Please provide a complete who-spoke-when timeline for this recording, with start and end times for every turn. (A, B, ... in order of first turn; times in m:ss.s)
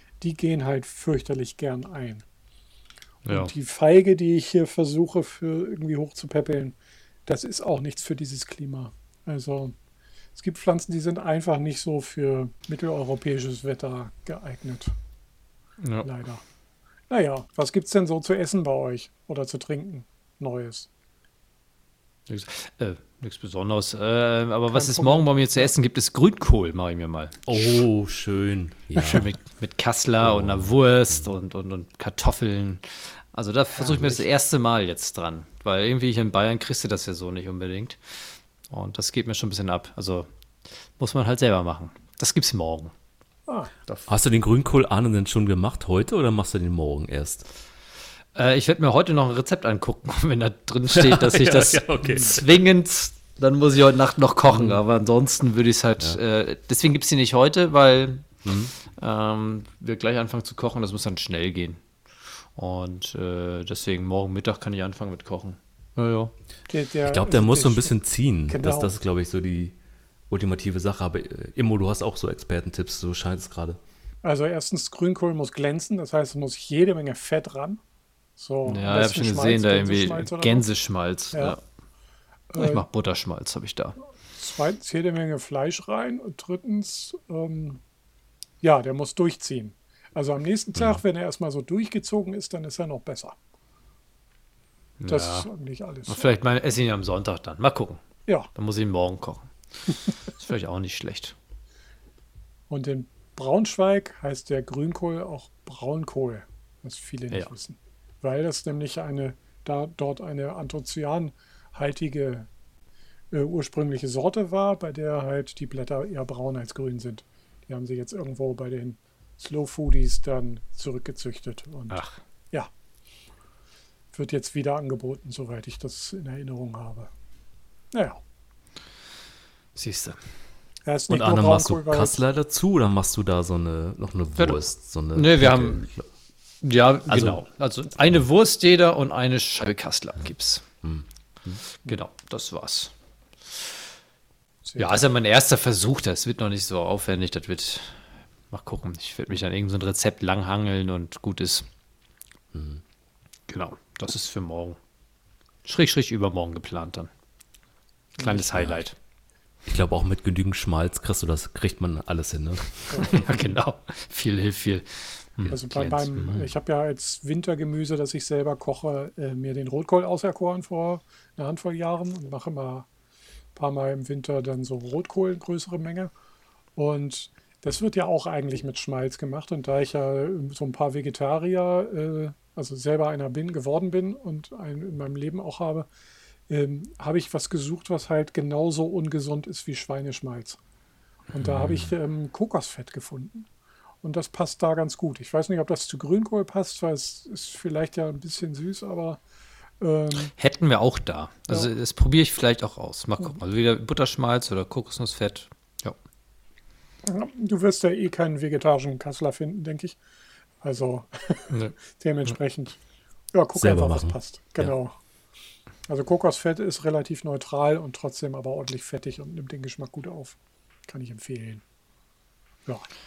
0:00.2-0:02.2 A
0:03.3-0:03.5 B
0:03.3-0:06.8 A
0:07.3-0:09.8 A
0:10.4-0:14.9 A
0:15.8-0:16.1 B
0:16.0-0:16.4 A
0:17.1-0:20.9 A
0:22.3-0:27.4 B
0:24.7-0:25.7 A
0:27.5-0:29.3 C
0:29.0-0:40.3 B
0:30.2-0:31.3 C
0:33.8-0:34.2 A
0:41.0-0:42.9 B
0:44.1-0:47.5 C
0:48.4-0:58.4 B
0:50.9-0:52.6 C
0:54.5-0:54.8 C
0:58.4-0:58.7 C
0:59.0-1:01.8 B
1:02.6-1:06.3 B
1:06.7-1:08.9 A
1:07.0-1:09.8 C
1:10.3-1:13.8 C
1:14.2-1:17.8 A
1:18.4-1:20.7 A
1:18.7-1:21.6 B
1:22.5-1:22.8 A
1:22.6-1:24.0 B
1:24.4-1:27.8 A
1:28.6-1:33.4 A
1:35.0-1:35.5 B
1:35.1-1:36.3 A
1:36.1-1:38.0 B
1:38.6-1:39.5 B
1:40.3-1:41.4 B
1:42.7-1:52.5 A
1:53.3-2:02.0 A
2:01.9-2:02.2 B
2:04.1-2:07.1 A
2:07.9-2:08.2 A
2:09.8-2:10.2 B
2:10.9-2:12.2 A
2:11.1-2:16.1 C
2:14.4-2:14.6 B
2:15.1-2:15.9 B
2:16.6-2:20.6 B
2:17.1-2:17.4 C
2:20.8-2:21.6 C
2:21.8-2:22.9 B
2:24.6-2:25.0 A
2:24.8-2:31.7 B
2:32.5-2:32.8 C
2:33.5-2:34.8 B
2:35.6-2:37.1 B
2:38.2-2:39.0 B
2:38.4-2:38.8 C
2:39.7-2:43.3 C
2:42.9-2:43.2 A
2:43.0-2:46.3 B
2:45.5-2:52.9 A
2:46.2-2:46.5 C
2:53.6-2:56.1 A
2:56.8-3:05.9 A
3:06.5-3:10.6 A
3:11.3-3:13.5 A
3:11.4-3:11.9 C
3:14.0-3:19.2 A
3:19.8-3:20.3 A
3:20.4-3:26.0 B
3:27.0-3:30.0 A
3:30.6-3:32.8 A
3:33.3-3:34.9 A
3:33.6-3:34.7 C
3:35.9-3:40.4 A
3:40.9-3:41.6 A